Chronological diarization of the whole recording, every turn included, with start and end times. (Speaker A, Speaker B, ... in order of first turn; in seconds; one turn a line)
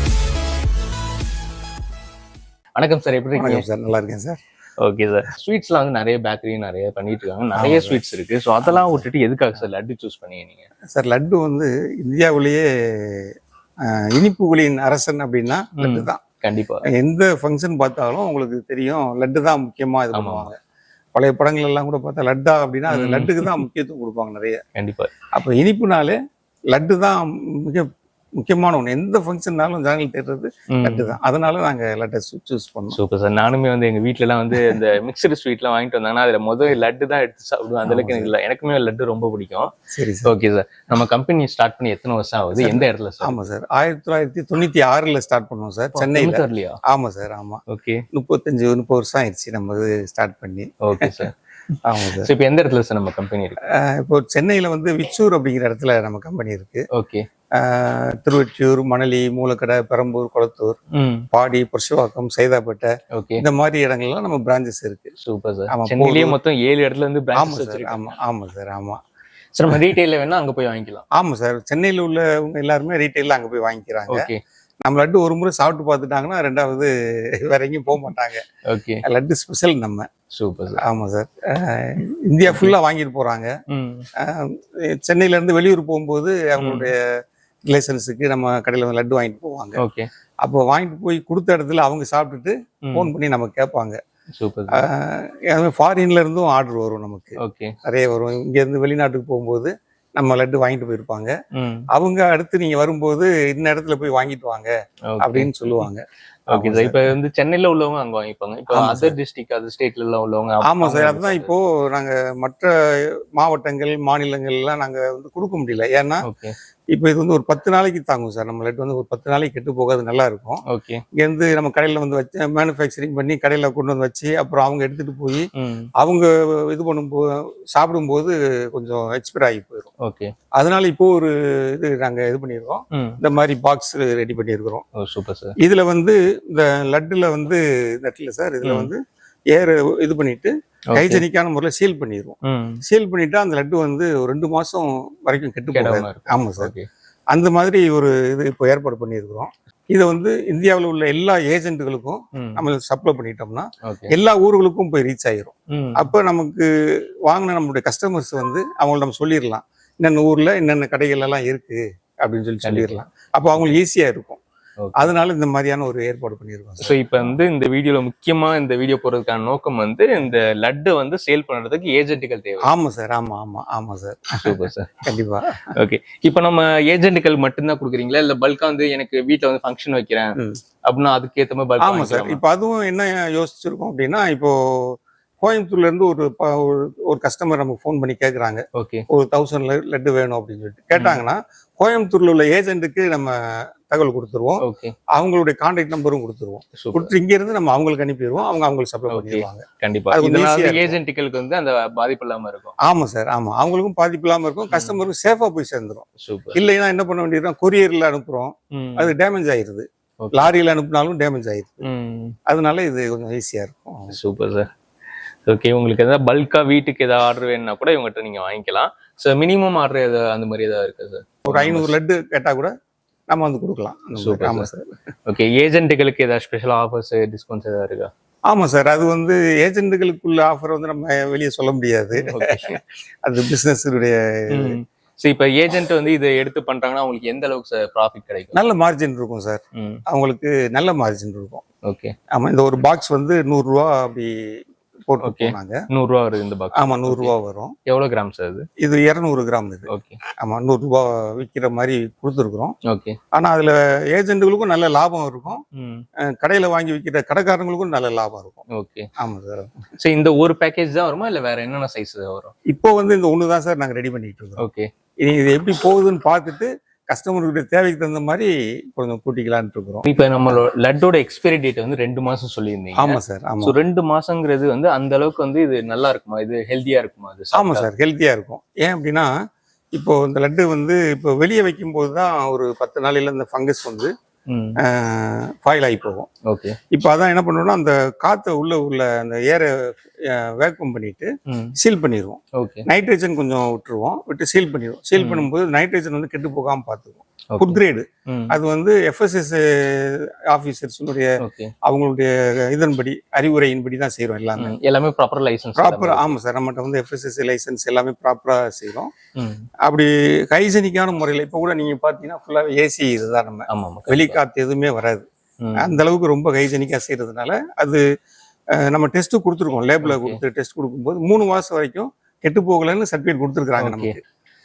Speaker A: 2.8-3.6
Speaker B: 3.4-4.4
Speaker A: 4.8-10.7
Speaker B: 7.6-8.0
Speaker B: 8.7-9.1
Speaker B: 10.9-13.3
Speaker B: 13.9-16.2
Speaker A: 15.8-16.9
Speaker B: 16.9-20.6
Speaker A: 20.1-20.5
Speaker B: 21.1-24.6
Speaker A: 22.9-23.6
Speaker A: 24.8-25.1
Speaker B: 25.3-26.2
Speaker B: 26.7-27.9
Speaker B: 28.4-33.0
Speaker A: 30.7-31.1
Speaker A: 32.9-39.7
Speaker B: 37.9-38.3
Speaker B: 39.9-40.4
Speaker A: 40.2-43.4
Speaker B: 42.5-47.6
Speaker A: 45.9-46.8
Speaker A: 47.7-48.0
Speaker B: 48.1-51.3
Speaker A: 50.8-51.3
Speaker B: 51.8-52.3
Speaker A: 52.1-53.6
Speaker B: 53.7-56.9
Speaker A: 56.9-57.3
Speaker B: 57.6-60.8
Speaker A: 60.9-61.3
Speaker B: 61.3-65.1
Speaker A: 63.1-63.5
Speaker A: 65.2-68.0
Speaker B: 65.7-66.4
Speaker B: 67.4-69.0
Speaker A: 69.5-71.0
Speaker B: 71.2-74.3
Speaker A: 74.1-74.4
Speaker B: 74.8-78.4
Speaker A: 78.7-79.0
Speaker B: 79.0-80.1
Speaker A: 80.4-80.8
Speaker B: 80.8-83.5
Speaker A: 82.5-82.8
Speaker A: 83.7-84.1
Speaker B: 84.2-87.1
Speaker A: 86.6-86.9
Speaker B: 87.7-89.8
Speaker A: 89.8-90.1
Speaker B: 90.4-94.0
Speaker A: 94.4-94.9
Speaker B: 94.7-101.3
Speaker A: 97.4-97.8
Speaker A: 101.5-101.9
Speaker B: 101.9-107.1
Speaker A: 105.1-105.9
Speaker A: 106.5-111.5
Speaker B: 108.7-109.2
Speaker B: 110.6-116.3
Speaker A: 116.2-116.5
Speaker B: 116.9-120.6
Speaker A: 120.7-121.0
Speaker B: 121.2-129.9
Speaker A: 125.6-125.9
Speaker A: 130.0-130.3
Speaker B: 130.6-134.8
Speaker A: 132.9-133.2
Speaker A: 135.0-135.6
Speaker B: 135.6-146.7
Speaker A: 138.6-138.9
Speaker A: 140.9-141.2
Speaker A: 142.4-142.8
Speaker A: 145.7-146.9
Speaker B: 147.3-156.7
Speaker A: 152.3-152.6
Speaker A: 153.9-154.1
Speaker A: 155.7-156.1
Speaker B: 157.3-164.4
Speaker A: 162.6-163.0
Speaker A: 164.8-165.1
Speaker B: 164.9-167.3
Speaker A: 166.8-172.7
Speaker B: 172.7-175.7
Speaker A: 174.4-175.0
Speaker A: 175.8-182.4
Speaker B: 181.8-194.6
Speaker A: 188.8-189.1
Speaker A: 190.9-191.2
Speaker A: 194.6-194.9
Speaker B: 195.2-201.0
Speaker A: 196.8-197.1
Speaker A: 199.1-202.8
Speaker B: 202.8-211.9
Speaker A: 204.7-205.0
Speaker A: 206.2-206.6
Speaker A: 208.7-209.1
Speaker A: 210.2-210.5
Speaker A: 211.8-212.4
Speaker B: 212.5-214.2
Speaker A: 214.1-214.7
Speaker A: 215.5-221.9
Speaker B: 221.5-222.7
Speaker B: 223.3-224.9
Speaker A: 224.2-224.7
Speaker A: 225.3-228.1
Speaker B: 228.5-234.8
Speaker A: 232.2-232.8
Speaker A: 234.5-238.6
Speaker B: 238.5-241.6
Speaker A: 239.8-240.0
Speaker A: 241.8-242.1
Speaker B: 242.3-244.5
Speaker B: 245.1-245.8
Speaker A: 245.2-247.3
Speaker B: 246.8-247.7
Speaker A: 247.9-248.7
Speaker B: 248.8-252.8
Speaker A: 249.9-250.2
Speaker A: 252.9-253.2
Speaker B: 253.3-255.6
Speaker A: 255.7-256.1
Speaker B: 256.2-258.6
Speaker A: 258.7-259.1
Speaker B: 259.2-259.8
Speaker A: 260.0-262.5
Speaker B: 262.7-264.6
Speaker A: 264.6-264.9
Speaker B: 265.2-270.6
Speaker A: 270.1-277.9
Speaker B: 273.0-273.8
Speaker B: 277.5-279.3
Speaker B: 279.9-284.1
Speaker A: 284.5-284.8
Speaker B: 284.8-286.3
Speaker A: 286.5-286.8
Speaker B: 286.9-304.8
Speaker A: 291.5-291.8
Speaker A: 292.6-292.9
Speaker A: 295.2-295.5
Speaker A: 297.5-298.6
Speaker A: 301.4-301.7
Speaker A: 304.6-306.3
Speaker B: 305.8-309.1
Speaker A: 309.4-309.7
Speaker B: 309.8-315.3
Speaker A: 313.7-314.4
Speaker A: 315.6-316.0
Speaker B: 315.8-318.0
Speaker B: 318.8-324.2
Speaker A: 320.0-320.4
Speaker A: 323.8-324.2